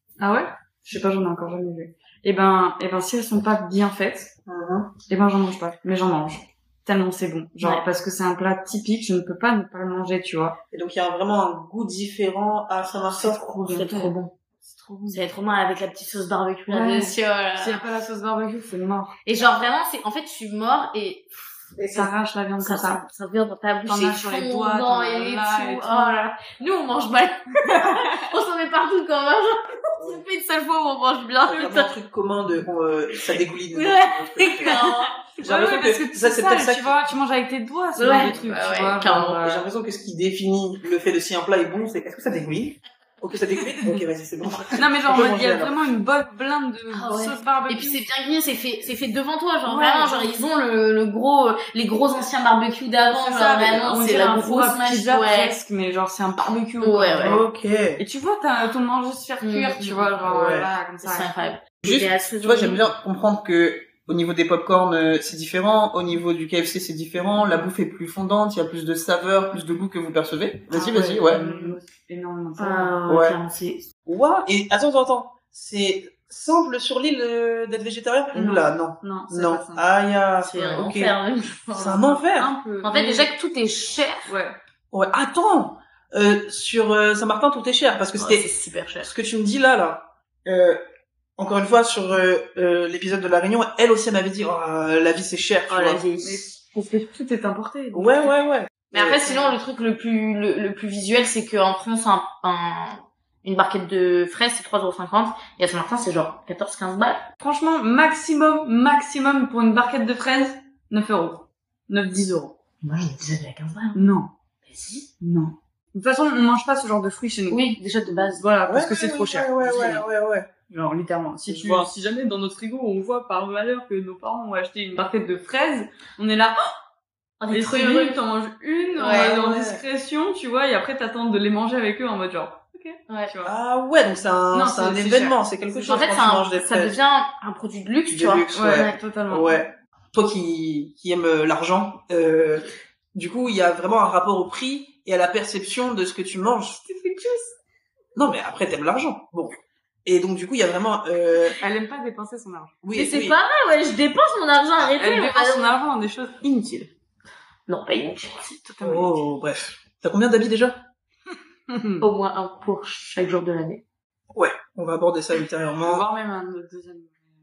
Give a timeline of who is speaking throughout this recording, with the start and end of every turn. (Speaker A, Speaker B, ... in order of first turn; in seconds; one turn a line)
Speaker A: 0.2-4.3
Speaker B: 4.5-4.9
Speaker A: 5.1-10.6
Speaker B: 10.7-13.4
Speaker A: 13.1-15.2
Speaker C: 13.6-14.3
Speaker C: 15.1-17.8
Speaker A: 16.7-19.2
Speaker C: 19.2-31.9
Speaker A: 21.9-23.0
Speaker A: 23.9-26.2
Speaker B: 30.0-30.2
Speaker B: 31.5-34.8
Speaker C: 33.7-35.2
Speaker A: 35.4-39.6
Speaker B: 35.4-37.1
Speaker C: 38.0-39.4
Speaker B: 38.0-38.5
Speaker B: 39.4-45.8
Speaker A: 44.8-48.0
Speaker C: 46.9-55.5
Speaker A: 49.6-50.3
Speaker A: 53.1-57.4
Speaker C: 56.8-57.4
Speaker B: 57.2-58.0
Speaker A: 58.0-61.3
Speaker C: 59.4-60.2
Speaker B: 60.2-60.7
Speaker C: 61.0-62.8
Speaker B: 61.8-71.4
Speaker C: 70.8-71.8
Speaker A: 70.8-73.0
Speaker C: 72.6-73.8
Speaker B: 73.1-73.4
Speaker B: 74.0-81.1
Speaker A: 78.3-79.9
Speaker C: 80.4-82.2
Speaker B: 81.7-82.5
Speaker A: 82.3-83.3
Speaker C: 82.8-84.3
Speaker A: 84.3-84.6
Speaker B: 84.9-90.8
Speaker C: 88.2-89.1
Speaker B: 91.4-96.0
Speaker C: 95.7-96.4
Speaker A: 96.2-98.3
Speaker B: 97.9-99.2
Speaker C: 98.9-107.3
Speaker A: 99.0-99.5
Speaker A: 107.4-112.5
Speaker C: 112.8-114.0
Speaker A: 113.9-114.3
Speaker C: 114.6-115.1
Speaker A: 115.2-120.0
Speaker C: 117.5-118.4
Speaker B: 118.7-120.5
Speaker A: 120.7-126.8
Speaker B: 121.5-121.9
Speaker C: 127.4-128.2
Speaker A: 127.5-133.5
Speaker C: 129.0-129.4
Speaker B: 129.0-129.8
Speaker B: 133.4-137.0
Speaker A: 134.5-136.0
Speaker C: 135.8-139.0
Speaker B: 138.1-146.8
Speaker A: 138.5-139.6
Speaker A: 146.8-147.5
Speaker B: 148.1-151.6
Speaker A: 151.6-152.8
Speaker B: 152.8-153.4
Speaker C: 152.9-155.7
Speaker A: 154.8-156.9
Speaker C: 157.7-158.6
Speaker A: 158.6-159.2
Speaker B: 158.8-160.8
Speaker A: 161.7-162.1
Speaker C: 162.0-163.8
Speaker B: 164.3-166.0
Speaker A: 165.8-167.2